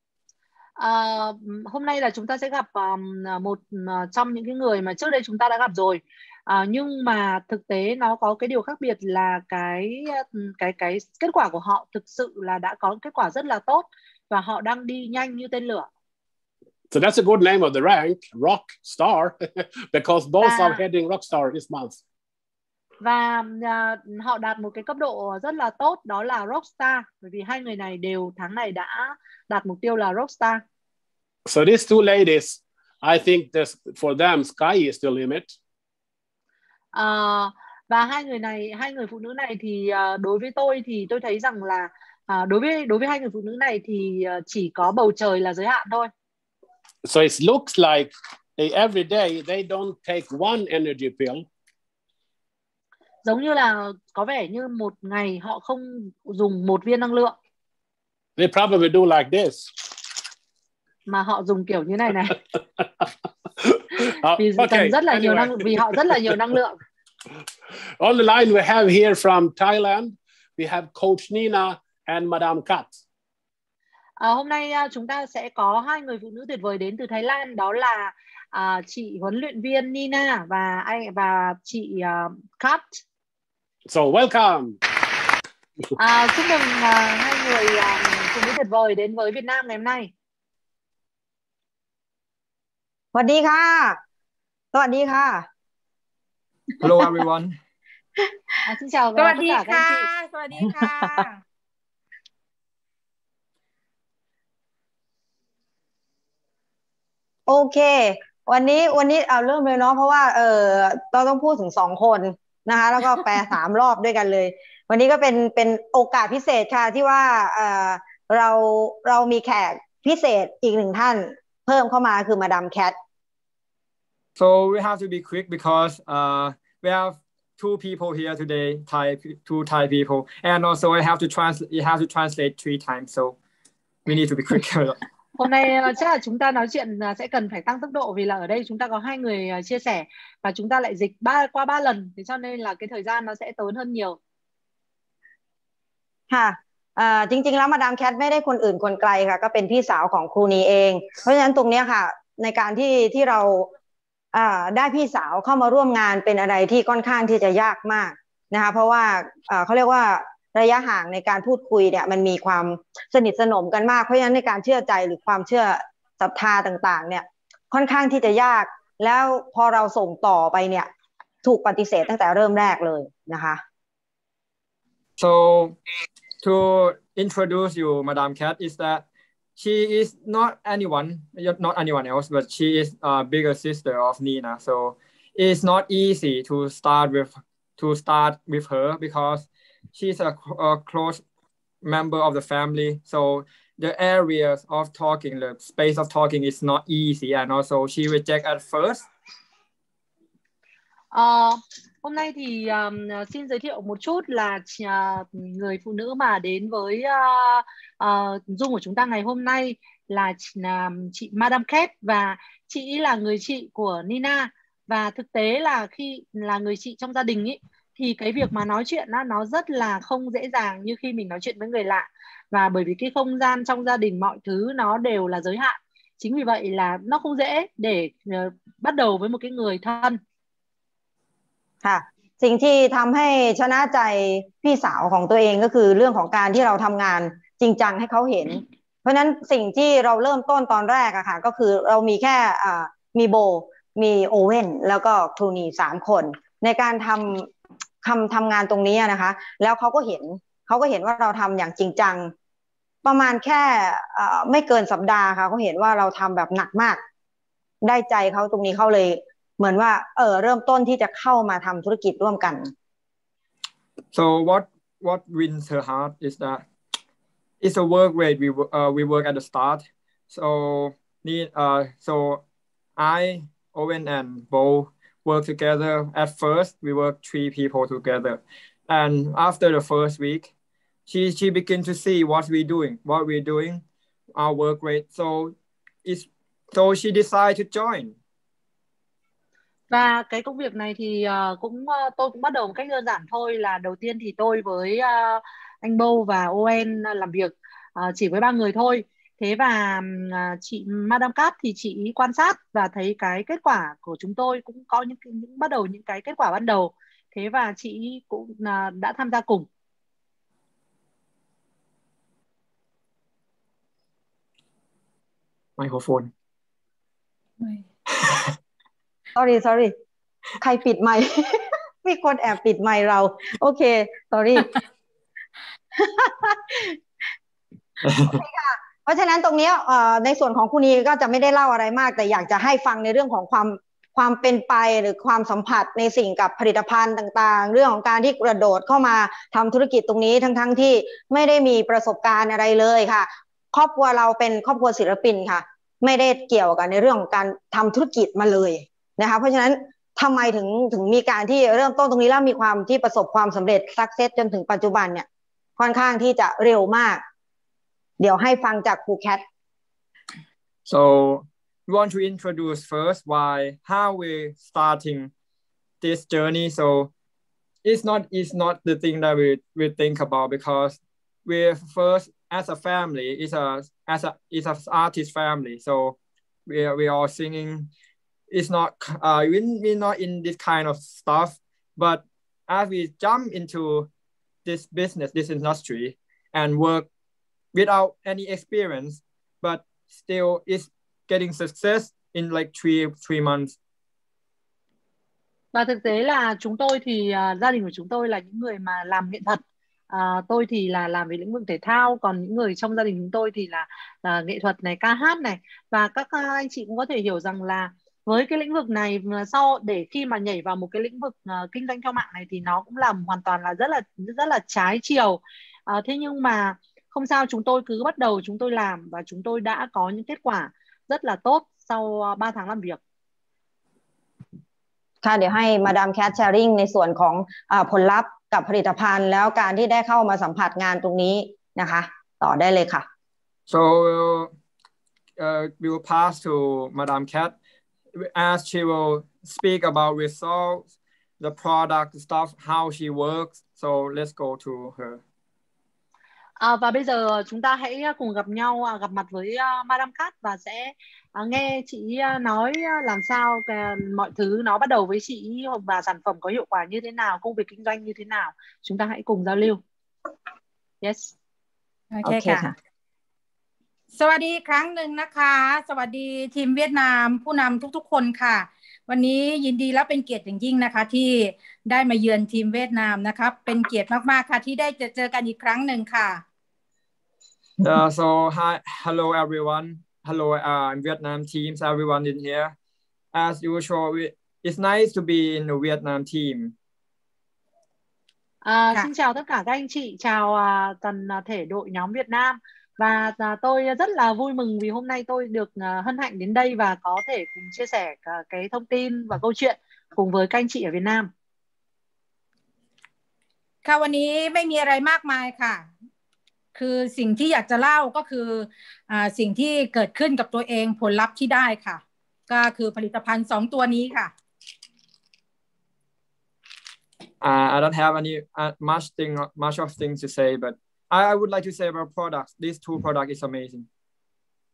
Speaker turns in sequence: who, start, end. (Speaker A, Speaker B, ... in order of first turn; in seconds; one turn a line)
Speaker A: 0.8-15.9
Speaker B: 16.9-22.0
Speaker A: 20.4-20.8
Speaker A: 23.0-30.6
Speaker B: 31.4-35.5
Speaker A: 36.9-46.1
Speaker B: 47.0-51.4
Speaker A: 53.2-57.4
Speaker B: 58.4-59.7
Speaker A: 61.1-62.4
Speaker B: 63.6-66.5
Speaker A: 64.3-66.8
Speaker B: 68.0-73.0
Speaker A: 74.2-83.0
Speaker B: 83.9-84.8
Speaker A: 86.0-90.1
Speaker C: 93.1-94.0
Speaker C: 94.7-95.5
Speaker D: 96.8-97.6
Speaker A: 98.6-100.1
Speaker E: 99.2-101.4
Speaker C: 107.5-122.9
Speaker D: 124.4-133.4
Speaker D: 134.1-135.0
Speaker A: 135.4-144.2
Speaker C: 146.3-153.7
Speaker C: 154.3-170.9
Speaker C: 171.4-173.6
Speaker D: 175.2-175.8
Speaker D: 176.4-179.0
Speaker D: 179.6-191.2
Speaker D: 191.8-199.1
Speaker A: 201.1-230.2
Speaker C: 231.8-247.5
Speaker C: 248.0-252.3
Speaker C: 253.0-257.0
Speaker C: 257.8-262.7
Speaker D: 264.1-266.6
Speaker D: 267.6-272.4
Speaker D: 273.0-280.5
Speaker D: 281.1-283.8
Speaker D: 284.4-288.1
Speaker A: 289.9-309.7
Speaker D: 315.8-316.3
Speaker C: 319.4-319.9
Speaker C: 320.6-324.7
Speaker C: 326.0-326.9
Speaker D: 328.0-328.4
Speaker C: 328.2-355.3
Speaker C: 355.8-357.2
Speaker C: 358.2-359.4
Speaker D: 360.9-365.3
Speaker D: 366.0-367.1
Speaker D: 367.8-377.9
Speaker D: 378.5-384.1
Speaker D: 384.6-387.1
Speaker D: 387.7-393.8
Speaker A: 395.7-423.0
Speaker C: 425.2-433.1
Speaker D: 433.7-434.5
Speaker D: 435.4-437.5
Speaker D: 438.1-440.9
Speaker D: 441.4-445.2
Speaker A: 446.6-459.8
Speaker A: 461.0-461.3
Speaker E: 462.1-462.6
Speaker C: 462.2-462.7
Speaker E: 464.1-476.4
Speaker D: 477.8-482.7
Speaker D: 483.3-486.7
Speaker A: 488.6-501.3
Speaker E: 503.8-505.9
Speaker E: 506.7-514.3
Speaker D: 517.4-523.9